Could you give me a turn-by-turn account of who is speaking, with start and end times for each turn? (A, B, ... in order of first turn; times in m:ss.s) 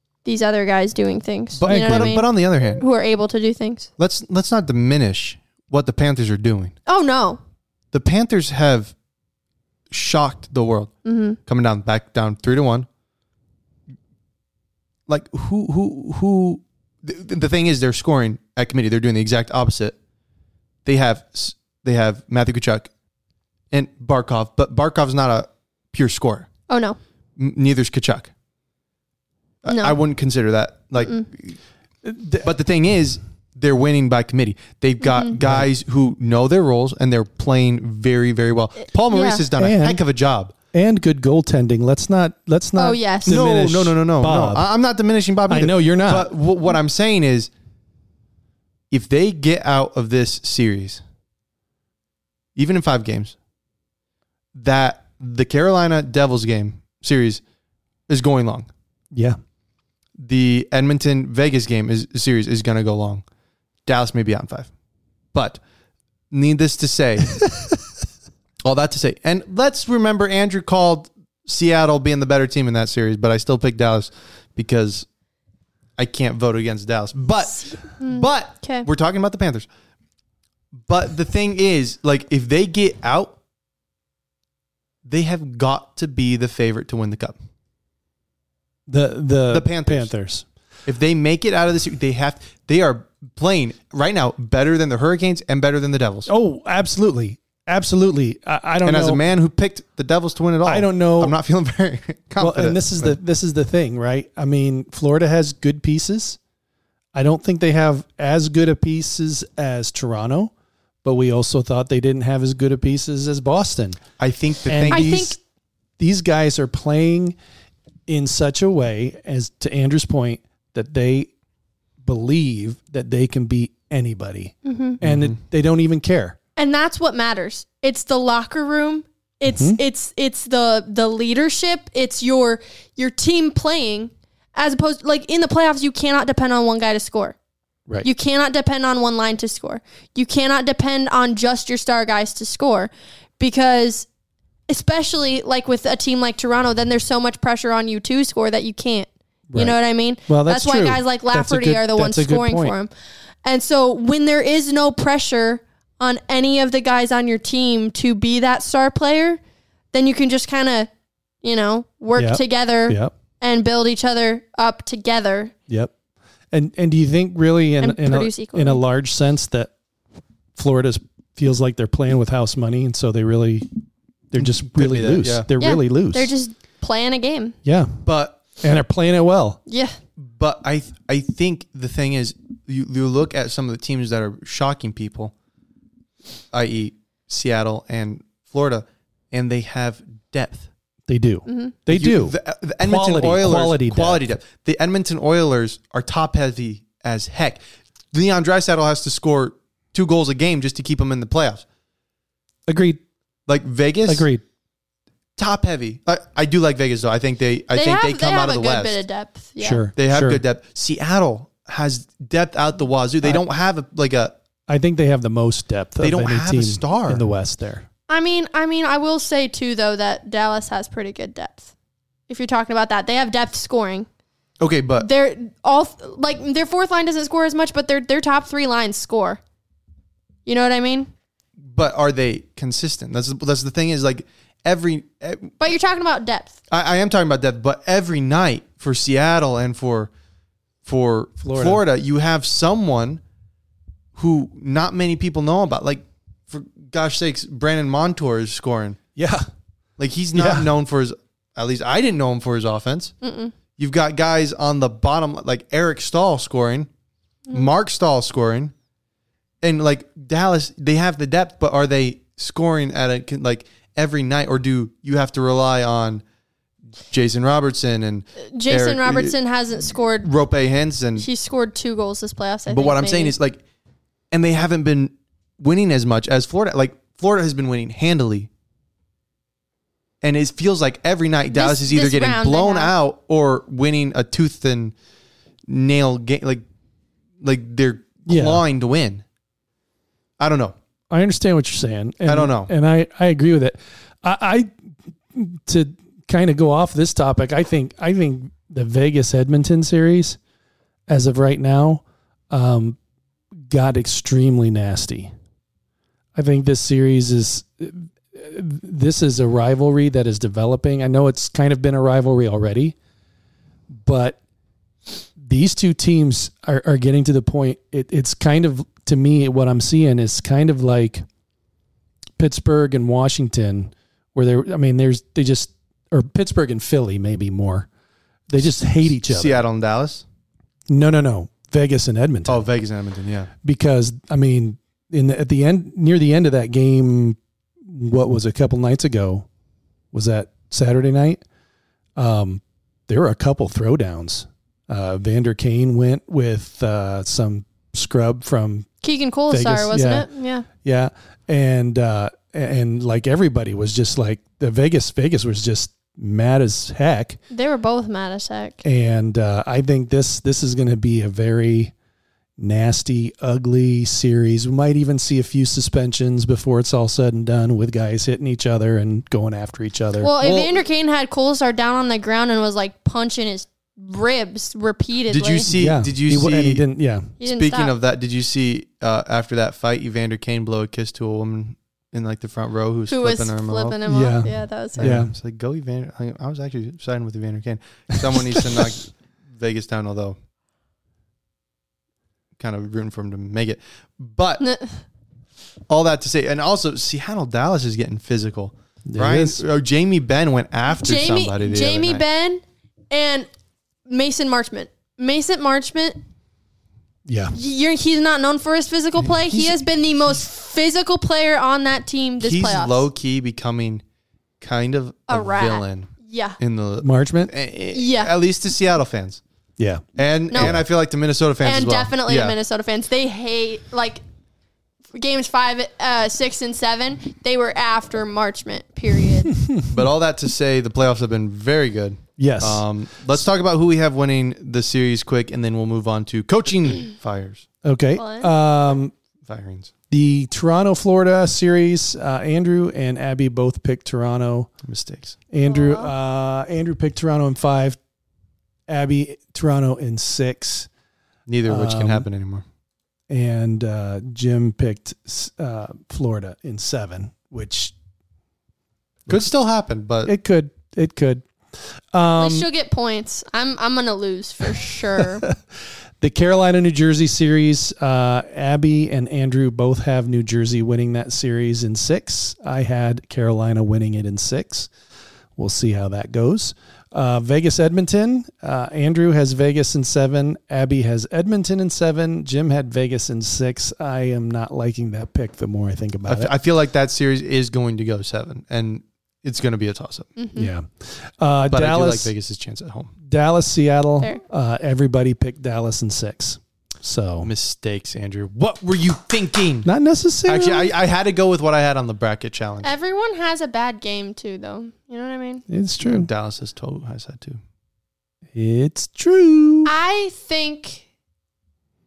0:00.2-0:03.9 A
0:01.6-0:02.8 B
0:01.6-0:02.2 C
0:04.0-0:06.7 B
0:06.9-0:07.4 A
0:07.9-0:08.9 B
0:09.9-0:10.9 B
0:11.0-0:11.4 A
0:11.4-0:12.9 B
0:15.1-0:20.0 B
0:20.8-0:22.9 B
0:23.7-0:26.5 B
0:26.7-0:27.0 A
0:27.4-0:28.3 B
0:29.6-0:31.6 B
0:29.7-0:30.0 A
0:31.0-0:31.2 A
0:32.0-0:32.5 C
0:32.4-0:40.5 B
0:35.0-0:35.4 A
0:35.4-0:35.7 C
0:39.1-0:39.5 A
0:39.6-0:40.0 C
0:40.7-0:44.7 C
0:42.8-0:43.4 A
0:43.2-0:47.5 B
0:45.5-0:46.3 C
0:48.9-0:51.0 B
0:52.6-0:53.4 B
0:54.5-0:57.4 B
0:58.1-0:58.7 B
1:00.2-1:03.2 B
1:03.8-1:04.7 B
1:05.3-1:05.6 B
1:06.3-1:07.5 B
1:08.6-1:15.1 B
1:16.0-1:19.7 B
1:17.5-1:18.9 A
1:20.8-1:23.4 B
1:25.0-1:27.4 B
1:28.9-1:30.4 C
1:29.5-1:30.1 B
1:30.8-1:36.3 B
1:36.3-1:39.2 C
1:38.8-1:43.2 B
1:40.6-1:41.4 C
1:42.4-1:46.4 C
1:47.1-1:50.5 C
1:51.0-1:54.0 C
1:54.2-1:55.3 B
1:54.6-1:55.4 C
1:54.9-1:55.4 A
1:56.0-1:57.3 C
1:58.1-2:01.3 C
2:02.0-2:06.4 C
2:04.6-2:05.0 A
2:05.0-2:05.4 B
2:06.6-2:17.3 A
2:09.4-2:09.8 C
2:18.0-2:24.1 A
2:24.7-2:32.9 A
2:30.3-2:32.7 C
2:33.4-2:39.4 A
2:39.9-2:40.9 A
2:41.4-2:45.5 A
2:42.2-2:43.1 C
2:45.7-2:45.9 C
2:46.5-2:49.7 C
2:47.8-2:48.8 A
2:50.5-2:53.7 C
2:54.3-2:56.3 C
2:54.4-2:55.5 B
2:55.6-2:57.6 A
2:57.6-2:58.0 C
2:58.0-2:58.4 B
2:58.6-2:59.6 C
2:59.7-3:00.0 A
3:00.2-3:05.3 B
3:06.5-3:10.7 B
3:11.1-3:14.3 C
3:11.5-3:11.8 A
3:11.9-3:17.6 B
3:18.1-3:21.6 B
3:22.7-3:23.0 C
3:23.5-3:24.3 B
3:24.1-3:24.4 C
3:25.4-3:29.0 B
3:27.7-3:29.8 A
3:29.6-3:30.4 C
3:30.0-3:34.4 B
3:34.7-3:37.9 C
3:36.0-3:37.2 B
3:38.1-3:41.7 A
3:42.3-3:44.1 A
3:44.6-3:45.1 B
3:45.0-3:49.4 A
3:50.4-3:51.1 A
3:51.6-3:55.6 B
3:55.6-3:56.6 A
3:56.7-4:00.1 B
4:00.8-4:03.2 B
4:01.4-4:01.8 C
4:04.1-4:09.0 B
4:09.2-4:09.4 C
4:10.0-4:13.1 B
4:10.3-4:10.7 C
4:13.2-4:13.5 A
4:13.8-4:16.9 B
4:17.5-4:18.7 B
4:19.6-4:26.2 B
4:27.1-4:29.4 B
4:28.5-4:30.3 A
4:30.2-4:31.3 B
4:31.2-4:33.3 A
4:32.7-4:33.6 B
4:34.3-4:38.5 B
4:40.2-4:44.9 B
4:41.5-4:42.9 A
4:45.7-4:46.6 B
4:47.4-4:49.2 B
4:48.3-4:48.6 C
4:50.4-4:50.8 B
4:51.1-4:54.7 C
4:52.2-4:52.7 B
4:55.3-5:00.4 C
5:01.1-5:03.0 C
5:03.7-5:05.3 C
5:06.3-5:13.0 C
5:13.9-5:14.4 C
5:15.4-5:21.2 C
5:22.4-5:27.9 C
5:28.5-5:29.6 C
5:29.0-5:30.2 B
5:30.9-5:32.7 C
5:32.5-5:33.5 B
5:33.6-5:39.5 C
5:40.1-5:41.4 C
5:42.2-5:48.9 C
5:49.0-5:50.7 A
5:49.5-5:50.3 C
5:50.8-5:57.4 C
5:57.5-5:58.8 A
5:58.8-6:01.9 C
6:02.6-6:10.3 C
6:10.2-6:15.7 A
6:10.4-6:10.8 B
6:15.3-6:16.8 B
6:15.7-6:17.3 C
6:17.4-6:17.9 A
6:17.4-6:24.0 B
6:23.1-6:25.1 A
6:24.1-6:25.3 C
6:25.0-6:30.4 B
6:28.5-6:28.8 C
6:32.6-6:34.6 B
6:34.6-6:35.0 A
6:35.9-6:42.2 B
6:39.1-6:39.6 C
6:40.9-6:43.5 A
6:44.0-6:46.2 A
6:47.3-6:47.5 C
6:47.5-6:53.1 A
6:52.4-6:54.0 B
6:54.6-6:59.4 B
6:55.3-6:56.6 A
6:57.0-6:57.5 C
6:57.9-6:58.3 A
6:59.8-7:00.0 C
7:00.2-7:02.6 B
7:00.5-7:00.8 A
7:01.6-7:04.2 A
7:05.1-7:09.6 A
7:09.5-7:09.9 C
7:09.9-7:17.6 B
7:12.4-7:12.8 C
7:17.8-7:19.1 C
7:18.2-7:18.5 A
7:19.4-7:19.9 B
7:20.1-7:24.7 C
7:24.8-7:25.4 B
7:25.5-7:28.0 C
7:25.6-7:26.1 A
7:28.9-7:30.9 C
7:31.5-7:32.6 B
7:31.6-7:32.3 C
7:33.3-7:37.9 C
7:39.3-7:40.3 B
7:40.2-7:42.7 C
7:42.4-7:45.4 A
7:46.2-7:54.9 C
7:55.6-8:06.5 C
8:06.3-8:10.3 B
8:10.4-8:10.7 A
8:10.5-8:12.3 C
8:11.7-8:13.1 B
8:13.2-8:17.5 C
8:17.4-8:19.9 B
8:19.8-8:20.9 C
8:20.5-8:22.9 B
8:22.8-8:25.6 A
8:25.7-8:26.3 C
8:26.0-8:27.6 B
8:28.5-8:29.9 C
8:29.8-8:31.0 A